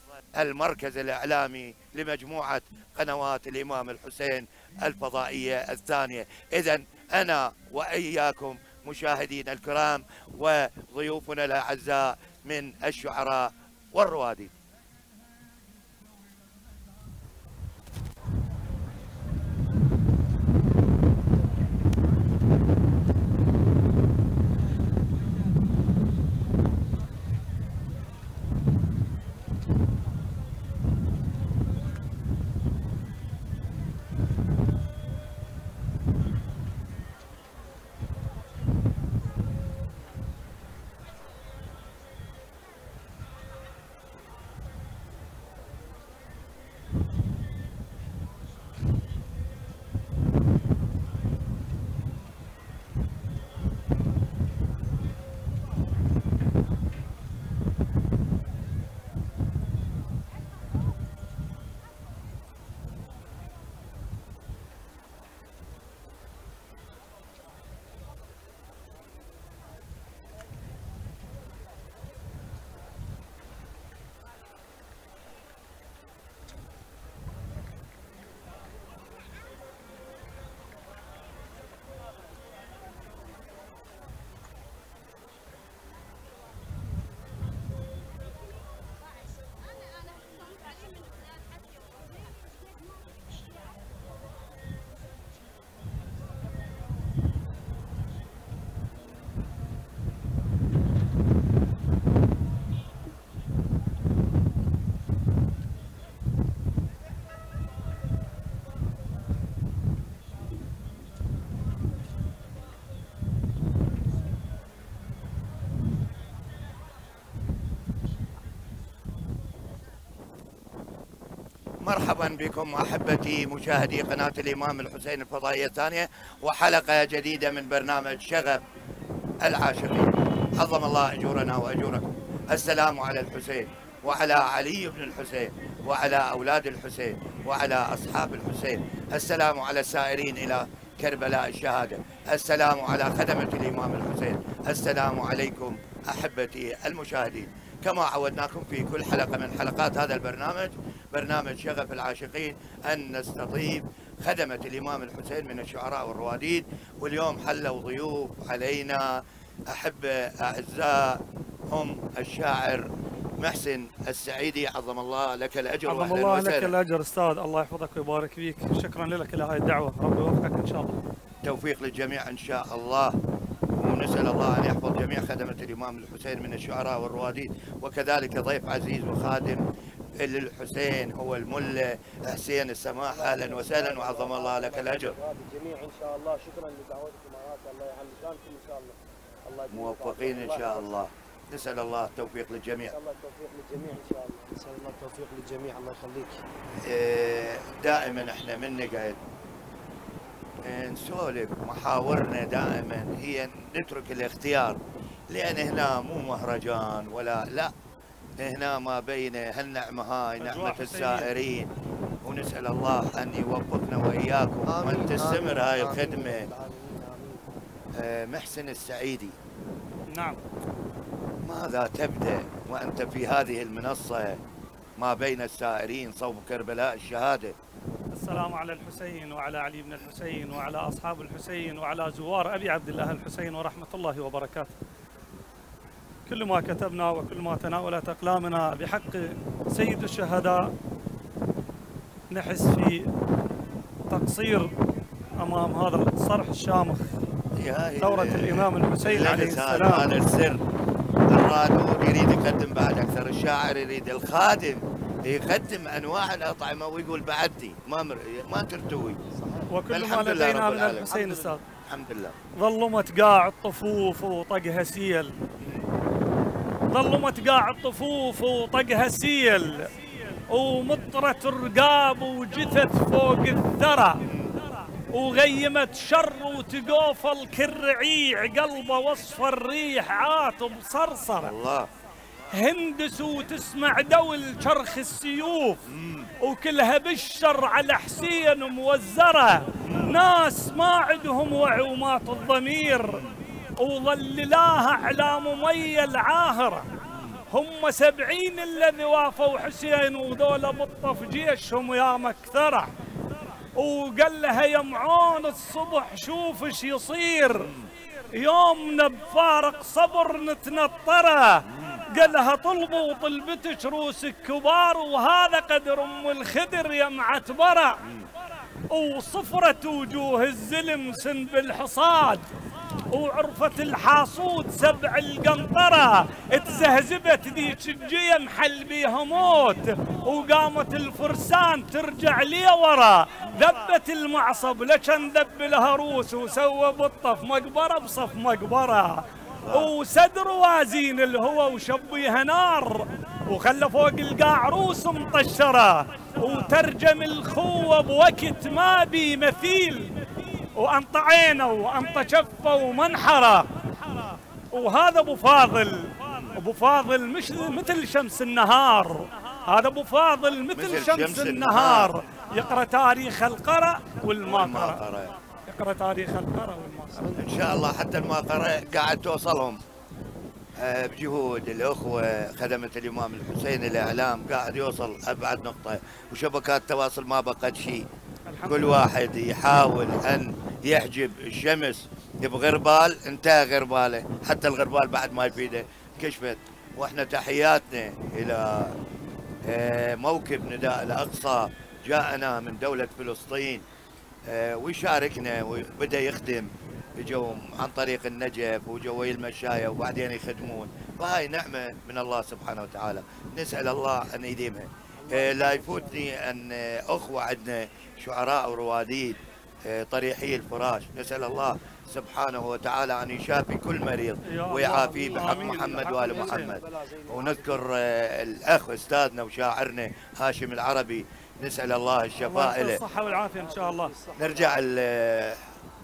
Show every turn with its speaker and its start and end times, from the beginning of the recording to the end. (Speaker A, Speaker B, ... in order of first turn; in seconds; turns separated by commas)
Speaker A: 0.3-14.5, Speaker A: 121.8-128.6, Speaker A: 129.4-162.9, Speaker A: 163.4-166.7, Speaker B: 165.8-171.0, Speaker A: 171.4-173.2, Speaker A: 173.8-179.6, Speaker A: 180.2-185.1, Speaker C: 183.1-191.0, Speaker A: 189.7-192.9, Speaker C: 192.8-196.4, Speaker A: 196.8-199.2, Speaker A: 200.6-207.7, Speaker A: 208.4-211.7, Speaker B: 210.4-211.3, Speaker A: 212.2-216.5, Speaker C: 214.7-217.4, Speaker A: 217.9-219.3, Speaker B: 220.1-220.4, Speaker A: 221.4-224.4, Speaker A: 225.0-227.6, Speaker B: 228.1-234.8, Speaker B: 236.3-240.7, Speaker B: 242.3-243.1, Speaker B: 244.1-244.7, Speaker B: 245.4-247.1, Speaker A: 247.6-250.6, Speaker B: 248.0-250.1, Speaker A: 251.3-259.2, Speaker C: 259.3-259.7, Speaker B: 259.7-261.6, Speaker A: 259.9-261.1, Speaker C: 261.1-261.6, Speaker A: 261.9-262.4, Speaker B: 262.6-265.3, Speaker A: 265.6-265.9, Speaker B: 266.9-269.9, Speaker B: 270.5-274.2, Speaker A: 274.3-274.6, Speaker B: 275.0-281.5, Speaker A: 281.4-281.9, Speaker B: 282.5-285.8, Speaker A: 285.9-286.3, Speaker B: 286.4-293.2, Speaker A: 289.8-290.1, Speaker A: 293.1-293.4, Speaker B: 293.8-296.9, Speaker A: 297.1-297.4, Speaker B: 297.5-302.9, Speaker B: 303.8-307.7, Speaker A: 307.6-307.9, Speaker B: 308.3-318.0, Speaker A: 311.7-312.0, Speaker B: 318.9-322.4, Speaker B: 323.1-350.2, Speaker A: 333.4-333.7, Speaker A: 339.6-339.9, Speaker B: 350.8-353.7, Speaker B: 354.7-365.0, Speaker A: 356.2-356.6, Speaker A: 360.7-362.1, Speaker A: 364.4-365.4, Speaker B: 365.7-367.4, Speaker C: 367.2-367.5, Speaker A: 367.3-369.8, Speaker A: 370.8-378.1, Speaker B: 378.5-379.0, Speaker A: 378.6-388.9, Speaker A: 389.6-393.8, Speaker A: 394.4-423.0, Speaker C: 405.2-406.3, Speaker B: 414.4-416.7, Speaker C: 415.3-417.8, Speaker B: 422.4-424.1, Speaker C: 423.0-424.8, Speaker A: 424.4-425.6